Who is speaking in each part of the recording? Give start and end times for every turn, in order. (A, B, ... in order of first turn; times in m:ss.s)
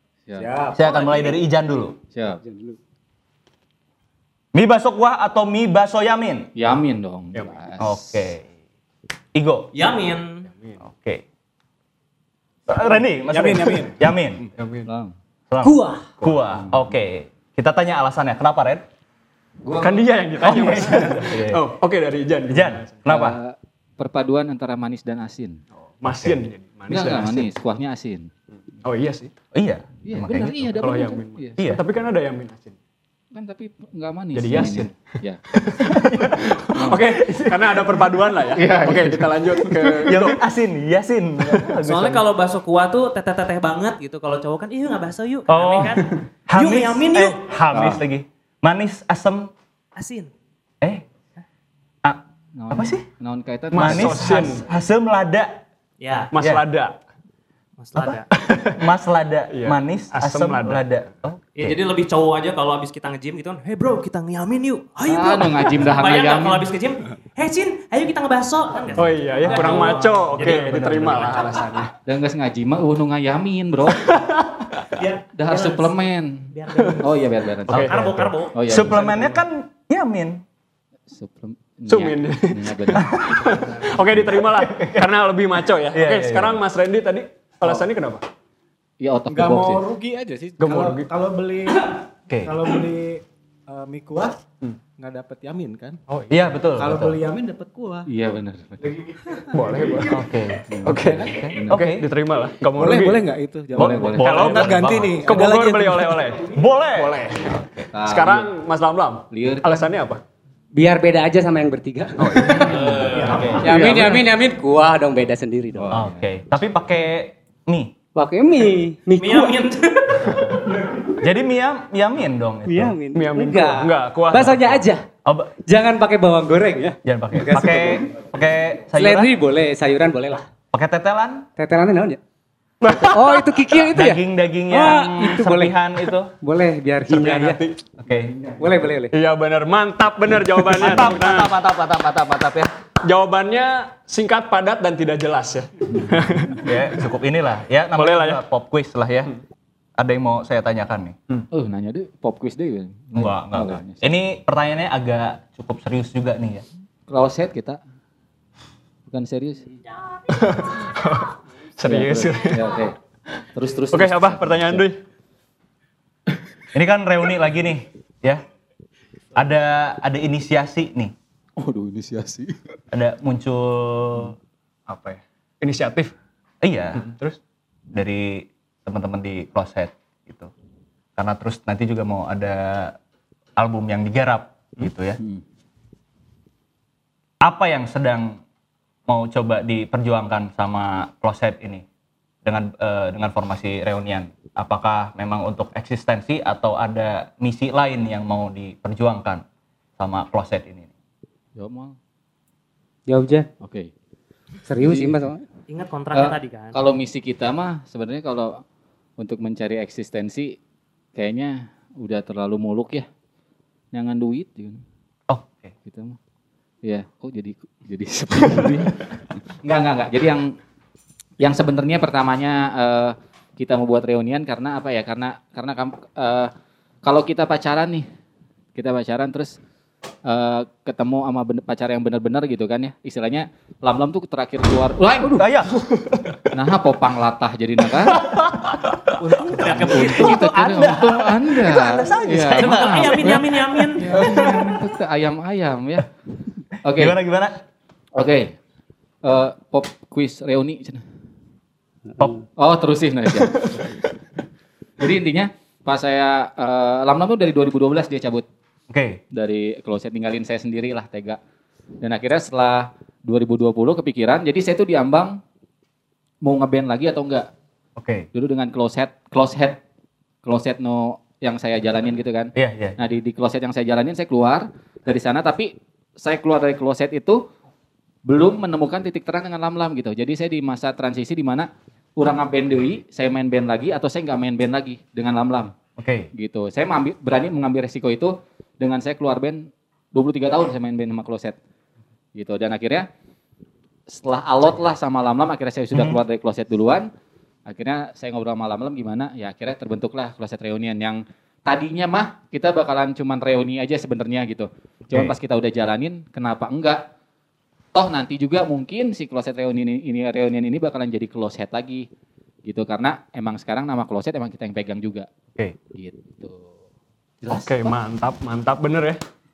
0:00.3-0:00.6 A
0:00.4-0:01.4 B
0:00.7-0:02.0 C
0:02.1-0:02.4 A
0:02.5-0:02.8 D
0:04.5-0:06.5 C
0:06.6-0:08.0 A
0:07.3-0:07.6 E
0:07.8-0:08.4 C
0:09.4-0:09.7 C
0:09.7-0:10.5 F
0:10.5-0:10.8 E
0:10.8-0:11.2 C
0:12.7-0:14.4 C
0:13.3-0:14.0 B
0:14.5-0:14.9 E
0:14.9-0:15.1 A
0:15.5-0:18.8 C
0:15.6-0:16.1 D
0:19.6-0:20.1 A
0:19.8-0:23.0 E
0:20.4-0:21.6 C
0:22.5-0:23.4 C
0:23.1-0:25.6 A
0:26.0-0:27.5 E
0:26.1-0:26.4 C
0:26.9-0:28.3 A
0:28.8-0:29.3 E
0:29.5-0:30.7 C
0:30.0-0:31.7 A
0:30.8-0:32.8 E
0:31.6-0:31.8 C
0:33.3-0:35.4 A
0:34.3-0:35.0 E
0:35.5-0:40.4 E
0:35.9-0:36.5 C
0:36.8-0:37.0 A
0:37.0-0:38.0 C
0:38.5-0:40.1 A
0:40.0-0:42.2 C
0:41.8-0:47.4 F
0:45.5-0:49.5 C
0:47.7-0:48.0 A
0:50.0-0:50.3 F
0:52.0-0:53.1 C
0:52.6-0:54.3 A
0:53.7-0:54.6 E
0:53.7-0:55.6 C
0:56.0-0:56.3 F
0:56.3-0:57.0 E
0:56.4-0:56.6 C
0:57.8-0:58.3 F
0:58.3-0:58.8 E
0:58.8-1:01.8 C
0:59.5-1:00.8 E
1:01.6-1:11.6 F
1:05.0-1:06.6 A
1:09.0-1:11.9 E
1:10.4-1:11.4 C
1:12.1-1:14.1 A
1:14.1-1:14.5 E
1:15.0-1:15.9 F
1:15.4-1:19.4 A
1:16.5-1:17.1 F
1:17.7-1:18.0 E
1:17.7-1:18.8 F
1:17.7-1:18.1 C
1:18.6-1:20.4 C
1:21.1-1:23.3 A
1:21.9-1:28.2 E
1:23.0-1:23.3 C
1:24.5-1:25.1 C
1:25.9-1:26.6 C
1:29.0-1:29.8 A
1:29.3-1:34.4 B
1:30.6-1:31.1 E
1:32.3-1:32.6 C
1:35.0-1:36.0 B
1:36.3-1:37.2 C
1:36.8-1:38.1 B
1:38.1-1:38.8 A
1:38.8-1:40.1 B
1:39.5-1:40.2 E
1:40.1-1:42.1 C
1:40.7-1:41.9 A
1:40.8-1:43.3 E
1:42.7-1:46.4 B
1:43.8-1:45.3 C
1:43.8-1:44.3 A
1:44.2-1:50.2 E
1:46.5-1:47.9 C
1:47.9-1:48.5 A
1:49.3-1:49.8 A
1:50.8-1:52.7 D
1:52.2-1:53.8 C
1:52.5-1:53.5 E
1:52.6-1:53.5 F
1:53.2-1:53.6 B
1:53.6-1:56.0 D
1:53.7-1:54.3 A
1:55.8-1:56.2 A
1:55.9-1:58.0 C
1:58.2-1:59.7 D
1:59.2-2:00.5 F
2:01.1-2:03.0 C
2:02.7-2:05.0 D
2:03.1-2:04.8 E
2:05.2-2:05.5 C
2:05.7-2:07.9 D
2:07.0-2:09.3 C
2:08.9-2:10.5 D
2:10.7-2:11.5 C
2:11.6-2:12.2 D
2:12.8-2:13.4 E
2:12.9-2:15.8 D
2:13.9-2:16.3 C
2:16.4-2:17.6 D
2:17.1-2:17.8 E
2:18.0-2:18.3 C
2:18.6-2:19.1 D
2:19.1-2:21.5 E
2:20.7-2:22.7 C
2:23.0-2:26.9 E
2:26.6-2:29.3 C
2:28.0-2:28.4 E
2:30.0-2:31.2 C
2:31.5-2:34.1 A
2:33.1-2:36.6 C
2:37.1-2:37.8 A
2:39.1-2:39.7 A
2:40.3-2:42.7 E
2:41.8-2:43.0 A
2:43.6-2:44.8 A
2:43.9-2:45.0 E
2:46.7-2:48.4 C
2:49.4-2:51.1 C
2:51.6-2:52.6 A
2:52.9-2:54.4 C
2:54.9-2:56.1 E
2:56.6-2:57.1 C
2:57.0-2:57.4 E
2:57.9-3:00.5 C
3:01.2-3:03.0 C
3:03.6-3:05.2 C
3:07.4-3:08.4 C
3:09.1-3:11.8 C
3:12.4-3:19.4 C
3:20.0-3:20.9 C
3:21.6-3:22.0 A
3:23.1-3:23.5 D
3:23.6-3:23.9 A
3:24.7-3:25.4 D
3:24.8-3:25.2 A
3:25.7-3:26.8 F
3:26.1-3:28.6 A
3:29.2-3:30.6 A
3:31.2-3:33.1 A
3:33.9-3:34.8 A
3:35.3-3:35.7 C
3:35.9-3:36.2 A
3:36.8-3:40.6 A
3:41.4-3:46.5 A
3:47.0-3:48.1 A
3:48.8-3:49.6 A
3:50.2-3:55.5 A
3:55.3-3:55.8 C
3:56.5-3:58.3 A
3:58.2-4:03.5 C
3:59.3-4:00.4 F
3:59.4-4:06.1 A
4:02.5-4:04.1 F
4:04.1-4:04.6 C
4:06.8-4:07.2 A
4:06.9-4:07.6 C
4:08.1-4:08.6 A
4:09.2-4:11.0 A
4:12.6-4:13.9 A
4:15.0-4:18.5 A
4:18.9-4:19.2 C
4:19.3-4:21.4 A
4:22.0-4:25.4 A
4:26.4-4:27.5 A
4:28.0-4:28.3 C
4:28.3-4:29.8 A
4:30.4-4:37.4 A
4:32.6-4:33.0 C
4:38.3-4:45.7 A
4:46.0-4:46.3 C
4:46.4-4:51.6 A
4:52.4-4:53.1 A
4:54.1-4:57.1 A
4:55.9-4:56.2 C
4:57.7-5:07.0 A
5:07.9-5:12.1 A
5:12.6-5:15.3 A
5:15.9-5:16.7 A
5:17.5-5:19.2 E